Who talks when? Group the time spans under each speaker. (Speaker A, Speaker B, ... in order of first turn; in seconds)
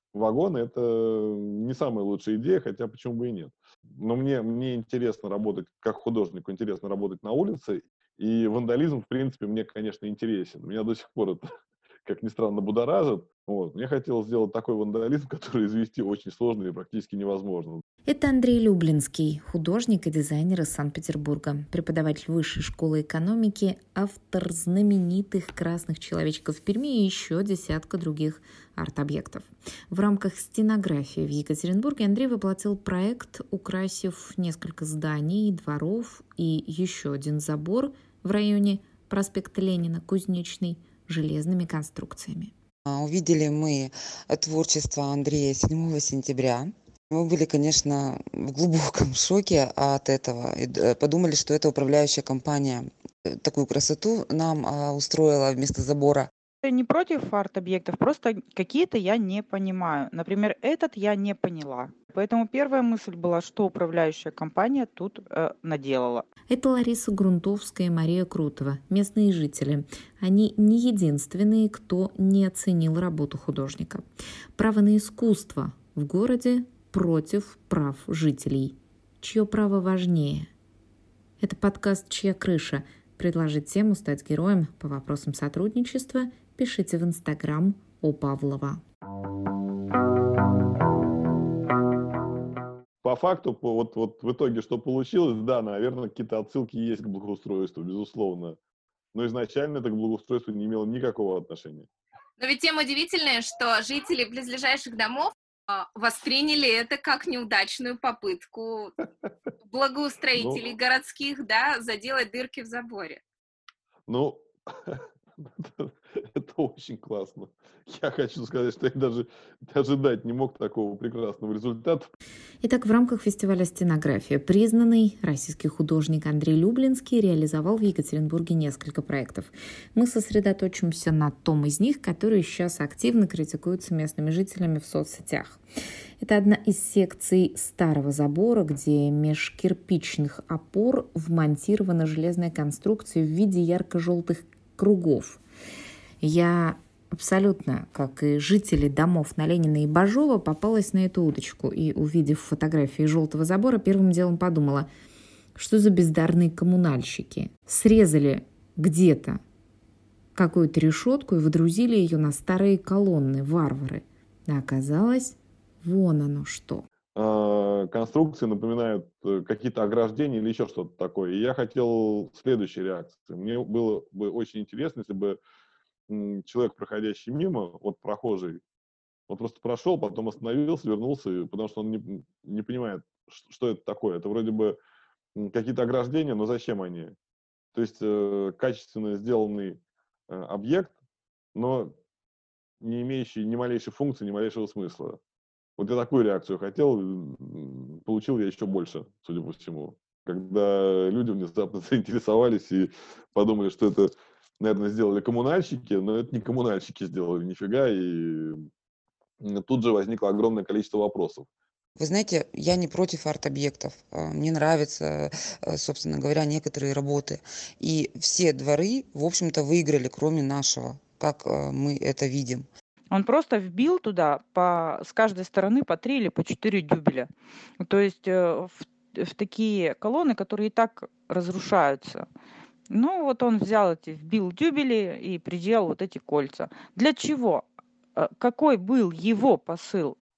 Speaker A: 0.1-11.5, 12.0-17.8, 93.0-98.6, 99.1-101.9, 110.3-110.7, 114.1-122.1, 167.1-175.4, 176.1-178.6, 179.3-184.8, 185.3-187.1, 187.7-190.9, 191.5-191.9, 192.8-195.2, 195.8-208.7, 209.4-211.5
Speaker B: 18.0-42.5, 66.5-74.0, 74.5-80.5, 81.4-88.8, 122.6-135.6, 136.2-145.4, 146.2-154.9, 155.5-159.4, 160.3-166.8
Speaker C: 42.9-52.9, 53.4-56.3, 212.0-222.7
Speaker D: 56.6-66.2, 223.1-227.3, 227.8-232.2, 232.9-240.2
Speaker E: 102.4-108.9, 109.6-113.2